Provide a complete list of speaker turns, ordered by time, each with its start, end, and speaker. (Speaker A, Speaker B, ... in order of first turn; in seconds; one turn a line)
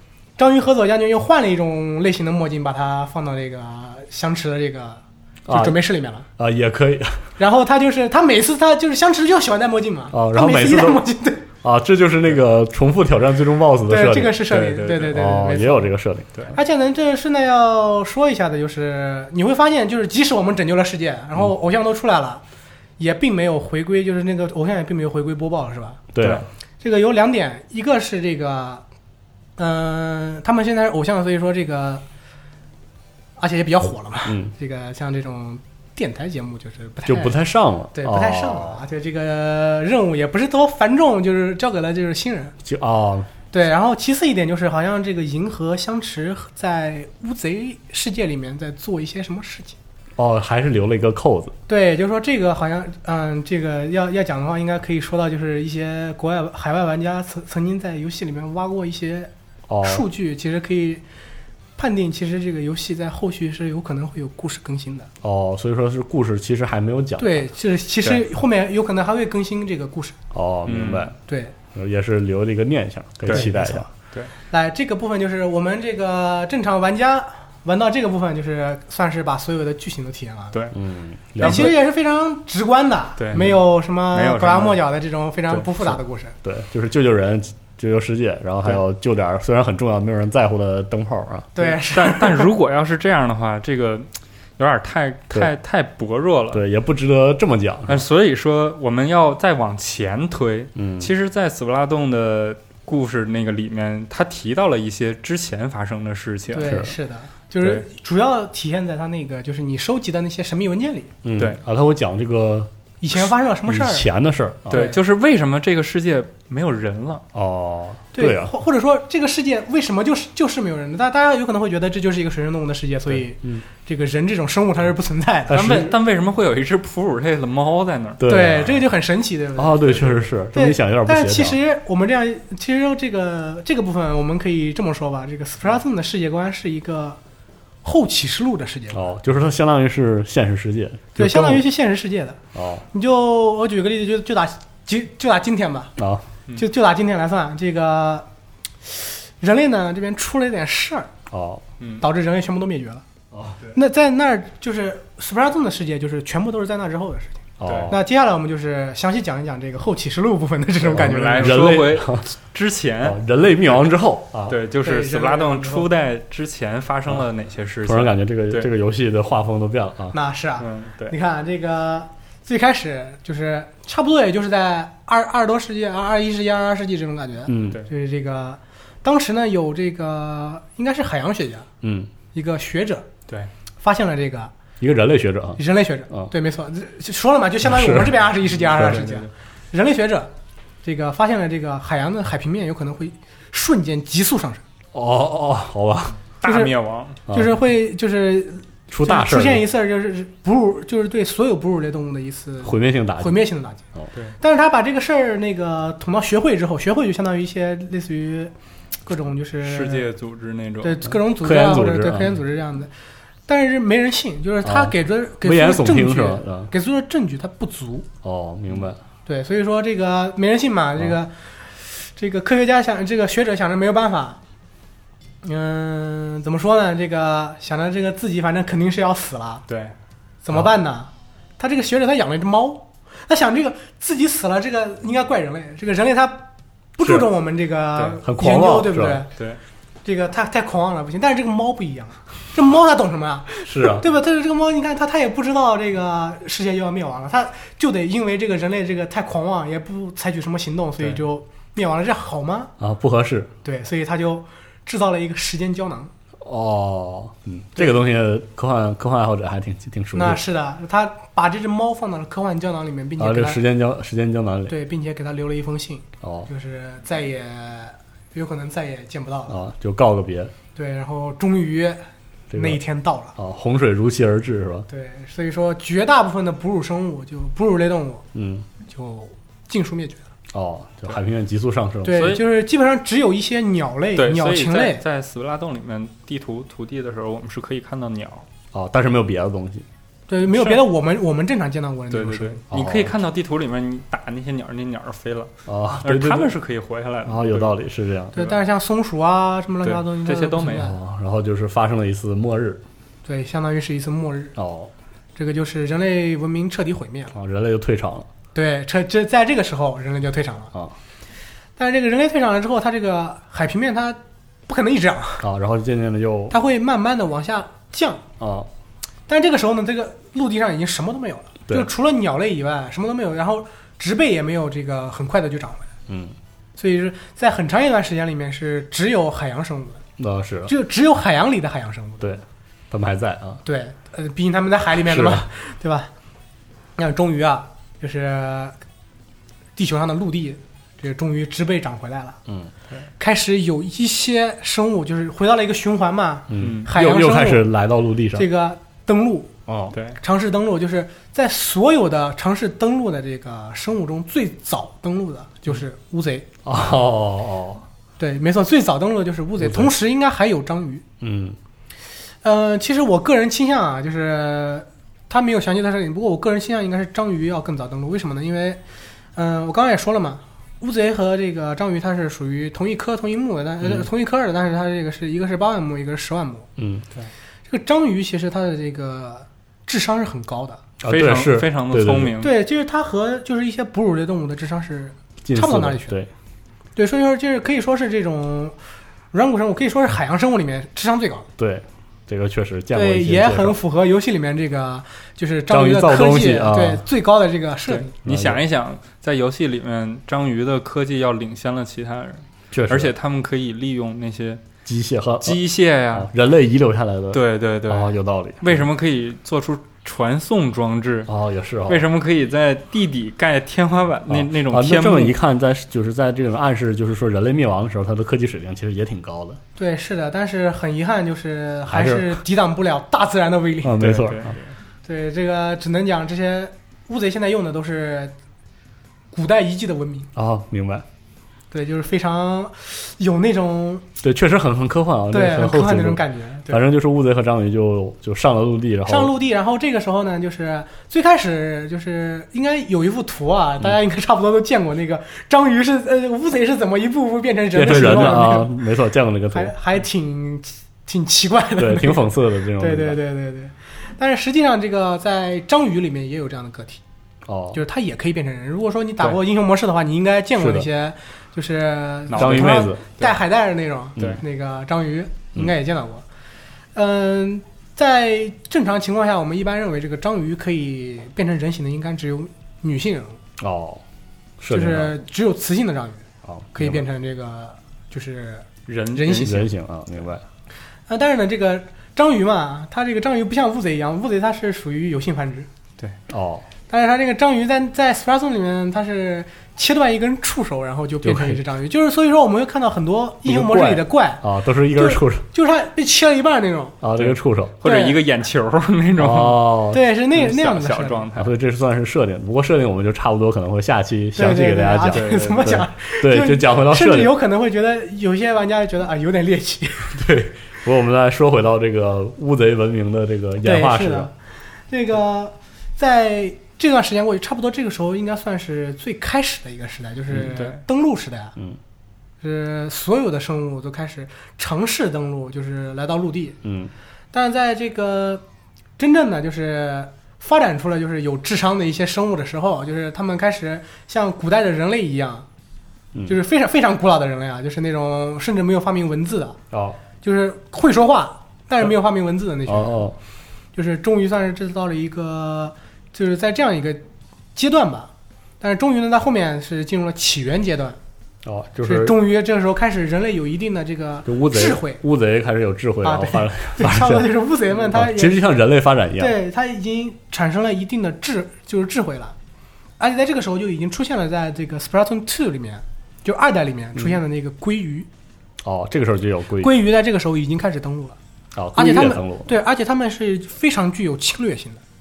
Speaker A: 0.4-6.3
Speaker B: 5.5-5.8
Speaker B: 6.4-7.2
Speaker A: 7.4-11.4
Speaker B: 10.1-11.0
Speaker B: 11.6-14.5
Speaker A: 13.9-15.9
Speaker C: 14.5-15.1
Speaker B: 15.0-16.3
Speaker A: 16.5-22.4
Speaker A: 23.0-26.0
Speaker B: 26.1-26.4
Speaker A: 26.8-28.8
Speaker A: 29.6-32.0
Speaker A: 33.4-37.4
Speaker B: 34.3-34.5
Speaker B: 37.0-38.8
Speaker A: 37.9-42.5
Speaker B: 42.6-43.3
Speaker A: 43.5-49.8
Speaker B: 50.2-51.5
Speaker A: 51.7-59.3
Speaker B: 59.7-60.0
Speaker A: 59.8-61.0
Speaker A: 61.8-65.1
Speaker B: 65.2-67.5
Speaker A: 67.2-70.2
Speaker B: 70.3-71.1
Speaker C: 70.7-71.1
Speaker A: 71.3-71.5
Speaker B: 71.7-73.9
Speaker A: 73.3-73.9
Speaker A: 74.5-80.6
Speaker B: 80.7-81.7
Speaker C: 81.4-81.7
Speaker A: 81.4-86.3
Speaker C: 83.2-84.8
Speaker B: 85.8-91.7
Speaker A: 91.5-92.5
Speaker C: 91.8-96.6
Speaker B: 96.5-98.0
Speaker C: 97.9-106.7
Speaker B: 100.8-101.1
Speaker A: 106.5-111.1
Speaker B: 106.6-106.9
Speaker B: 111.2-112.7
Speaker A: 113.0-114.1
Speaker B: 113.7-114.9
Speaker C: 114.7-117.2
Speaker A: 114.7-115.0
Speaker B: 117.3-118.5
Speaker A: 118.1-125.8
Speaker B: 125.5-125.9
Speaker C: 125.5-128.2
Speaker B: 128.2-128.8
Speaker A: 128.2-137.2
Speaker B: 129.6-131.6
Speaker A: 137.8-139.1
Speaker B: 138.9-141.6
Speaker A: 141.1-142.4
Speaker B: 142.5-142.8
Speaker A: 142.9-145.9
Speaker B: 146.0-146.2
Speaker A: 146.6-148.3
Speaker A: 148.8-151.1
Speaker B: 151.3-151.6
Speaker A: 152.0-153.0
Speaker A: 153.7-161.8
Speaker B: 157.6-157.9
Speaker C: 157.6-157.9
Speaker B: 160.8-162.3
Speaker C: 160.9-163.2
Speaker B: 163.0-164.6
Speaker C: 164.5-168.7
Speaker A: 164.8-165.9
Speaker B: 167.8-170.1
Speaker A: 170.1-181.7
Speaker C: 170.6-171.1
Speaker B: 177.5-177.8
Speaker B: 181.8-182.1
Speaker A: 182.3-183.1
Speaker A: 183.8-184.5
Speaker B: 184.8-186.3
Speaker A: 185.6-190.3
Speaker B: 187.6-188.2
Speaker C: 188.6-189.2
Speaker B: 188.8-189.1
Speaker A: 190.8-194.6
Speaker B: 194.9-196.2
Speaker C: 196.4-197.2
Speaker A: 196.4-196.7
Speaker B: 197.3-197.6
Speaker A: 197.3-203.8
Speaker B: 198.9-199.6
Speaker B: 202.6-204.1
Speaker A: 204.4-208.5
Speaker A: 209.1-210.1
Speaker C: 209.6-211.0
Speaker A: 210.8-212.9
Speaker B: 211.2-212.4
Speaker A: 213.5-218.1
Speaker B: 214.6-216.7
Speaker B: 218.2-219.0
Speaker A: 219.2-224.4
Speaker A: 225.4-229.7
Speaker C: 229.7-229.9
Speaker A: 230.4-239.3
Speaker B: 238.2-239.2
Speaker A: 240.0-252.7
Speaker B: 243.7-244.0
Speaker B: 252.8-253.5
Speaker A: 253.6-256.1
Speaker B: 256.4-260.4
Speaker A: 260.1-263.6
Speaker B: 263.2-264.7
Speaker A: 264.7-269.6
Speaker B: 266.2-266.5
Speaker B: 269.5-270.5
Speaker A: 270.7-272.0
Speaker B: 272.5-272.8
Speaker A: 272.5-273.3
Speaker B: 273.4-274.9
Speaker A: 274.9-278.2
Speaker B: 278.3-278.6
Speaker A: 278.9-280.3
Speaker B: 280.5-282.4
Speaker A: 282.0-285.0
Speaker C: 282.1-282.4
Speaker C: 284.1-288.4
Speaker B: 288.7-289.8
Speaker A: 290.3-292.6
Speaker C: 290.5-290.8
Speaker C: 292.1-297.8
Speaker B: 292.7-293.1
Speaker B: 295.7-296.5
Speaker B: 297.2-298.5
Speaker A: 298.3-301.0
Speaker C: 299.8-300.9
Speaker B: 300.7-302.8
Speaker A: 303.2-304.5
Speaker B: 304.6-304.9
Speaker A: 305.4-307.3
Speaker B: 307.3-308.3
Speaker A: 308.5-310.7
Speaker A: 311.8-315.4
Speaker B: 315.4-316.5
Speaker A: 316.5-318.2
Speaker B: 318.4-318.7
Speaker A: 319.3-325.9
Speaker B: 326.1-326.3
Speaker A: 326.8-330.0
Speaker B: 330.2-330.7
Speaker A: 330.7-332.3
Speaker B: 332.2-333.6
Speaker A: 333.6-336.1
Speaker B: 335.0-335.5
Speaker A: 337.0-338.8
Speaker A: 339.8-342.4
Speaker A: 343.2-347.6
Speaker B: 346.5-348.5
Speaker C: 346.6-346.9
Speaker A: 348.3-349.5
Speaker B: 349.7-349.9
Speaker C: 349.9-350.2
Speaker A: 350.2-356.4
Speaker B: 356.6-357.8
Speaker A: 358.2-361.0
Speaker B: 359.6-359.9
Speaker B: 361.2-361.6
Speaker A: 362.4-368.8
Speaker A: 369.4-376.7
Speaker B: 376.8-377.1
Speaker A: 377.7-380.8
Speaker B: 381.0-382.4
Speaker C: 381.0-382.6
Speaker A: 382.4-386.2
Speaker B: 385.4-386.3
Speaker A: 386.9-388.7
Speaker A: 389.3-391.5
Speaker B: 391.6-393.8
Speaker A: 392.9-398.1
Speaker B: 395.7-397.0
Speaker C: 397.9-404.6
Speaker B: 398.2-398.6
Speaker B: 402.7-403.1
Speaker B: 404.9-405.6
Speaker C: 405.4-406.3
Speaker B: 406.1-408.9
Speaker C: 407.3-411.3
Speaker B: 411.3-412.1
Speaker C: 411.9-415.3
Speaker B: 414.3-419.6
Speaker A: 419.8-424.2
Speaker B: 421.9-422.4
Speaker B: 423.8-424.5
Speaker C: 424.0-424.7
Speaker A: 425.0-428.3
Speaker A: 429.3-430.3
Speaker B: 430.4-431.0
Speaker A: 431.7-434.0
Speaker B: 434.2-439.3
Speaker A: 435.3-436.8
Speaker A: 439.1-448.7
Speaker B: 447.7-449.7
Speaker A: 449.5-452.3
Speaker B: 451.8-453.2
Speaker A: 452.8-457.0
Speaker B: 457.5-457.8
Speaker A: 457.7-466.2
Speaker B: 460.6-460.9
Speaker C: 462.3-463.3
Speaker B: 462.3-463.0
Speaker A: 466.9-473.4
Speaker B: 473.6-474.0
Speaker B: 474.6-475.2
Speaker A: 474.7-479.7
Speaker B: 476.4-477.0
Speaker C: 478.9-479.6
Speaker B: 479.3-480.4
Speaker A: 481.1-485.7
Speaker B: 486.3-486.6
Speaker A: 486.9-496.9
Speaker B: 491.2-491.6
Speaker B: 493.4-495.4
Speaker B: 497.0-497.8
Speaker C: 497.2-499.8
Speaker A: 497.8-498.2
Speaker B: 499.2-500.0
Speaker A: 499.9-501.3
Speaker C: 500.3-501.5
Speaker B: 501.4-507.3
Speaker A: 504.3-510.1
Speaker C: 505.1-505.7
Speaker B: 510.1-514.3
Speaker A: 513.6-514.3
Speaker A: 514.9-521.5
Speaker C: 520.5-520.8
Speaker A: 522.4-526.6
Speaker B: 526.6-526.9
Speaker A: 527.3-528.4
Speaker A: 529.0-535.5
Speaker A: 536.3-539.6
Speaker B: 539.7-540.0
Speaker A: 540.2-543.0
Speaker B: 542.7-543.1
Speaker A: 543.7-547.0
Speaker A: 547.5-548.1
Speaker A: 548.6-551.0
Speaker B: 551.4-552.2
Speaker A: 551.8-555.0
Speaker B: 554.2-557.3
Speaker A: 556.0-558.5
Speaker B: 557.9-559.3
Speaker A: 559.2-562.3
Speaker A: 563.0-568.1
Speaker B: 568.6-569.7
Speaker A: 569.6-571.1
Speaker B: 571.5-572.5
Speaker A: 571.7-574.8